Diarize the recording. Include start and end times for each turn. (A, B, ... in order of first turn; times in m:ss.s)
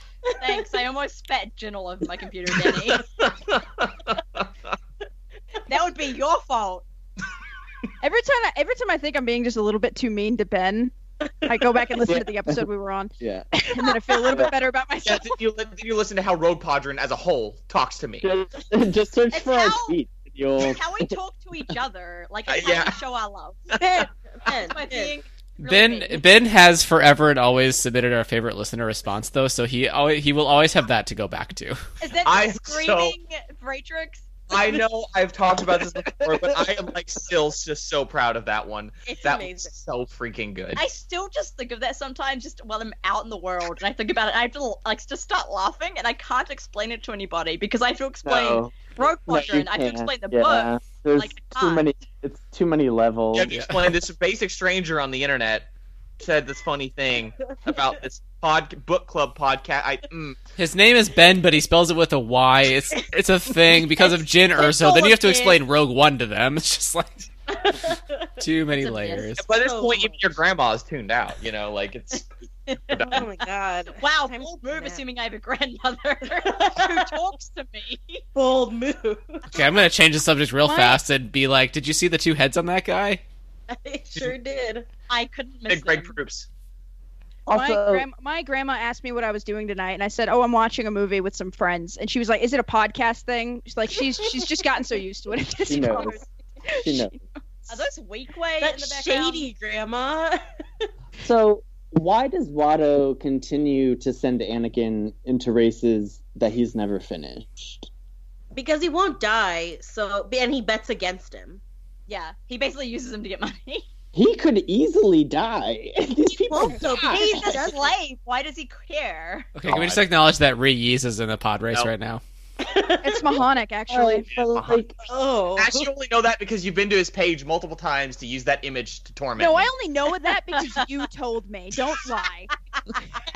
0:00.4-0:03.0 A
0:03.2-0:04.5 B
0:05.7-0:06.8 A
0:08.0-0:10.9 C
0:11.4-0:15.4 C
0:12.0-0:12.7 D
0:13.2-0:13.5 D
0:15.0-0:18.3 B
0:18.2-0:21.2 D
0:19.3-0:20.0 A
0:20.6-0:23.8 A
0:22.5-0:23.0 B
0:23.8-0:25.2 E
0:24.7-0:26.2 A
0:25.6-0:31.8 F
0:32.0-0:34.3 A
0:32.2-0:33.2 B
0:34.5-0:40.8 B
0:39.1-0:39.7 E
0:40.8-0:51.8 A
0:48.2-0:53.5 D
0:53.3-0:55.7 B
0:53.5-0:53.9 F
0:56.2-1:00.4 B
1:00.6-1:07.3 F
1:04.6-1:05.5 A
1:07.5-1:08.4 E
1:08.4-1:09.4 F
1:08.8-1:09.3 A
1:09.4-1:12.3 B
1:09.5-1:10.2 E
1:12.7-1:13.2 A
1:12.9-1:13.2 B
1:13.1-1:15.0 E
1:13.9-1:18.2 A
1:16.4-1:17.2 E
1:18.4-1:19.4 E
1:19.5-1:23.2 F
1:20.6-1:21.0 C
1:23.7-1:24.9 E
1:25.1-1:26.2 A
1:25.7-1:26.5 B
1:27.5-1:28.1 D
1:27.5-1:37.2 C
1:35.6-1:36.2 D
1:36.8-1:37.2 D
1:37.7-1:39.5 A
1:38.6-1:40.4 E
1:41.2-1:47.9 D
1:48.5-1:51.6 E
1:52.1-1:53.9 A
1:54.1-1:57.2 D
1:56.3-1:57.9 E
1:56.6-1:57.2 C
1:57.0-1:59.5 A
1:59.6-2:02.2 F
1:59.7-2:00.0 B
2:02.6-2:03.4 E
2:03.0-2:04.3 C
2:03.9-2:05.0 D
2:04.3-2:04.8 B
2:05.1-2:05.9 E
2:05.6-2:09.7 B
2:09.4-2:12.5 C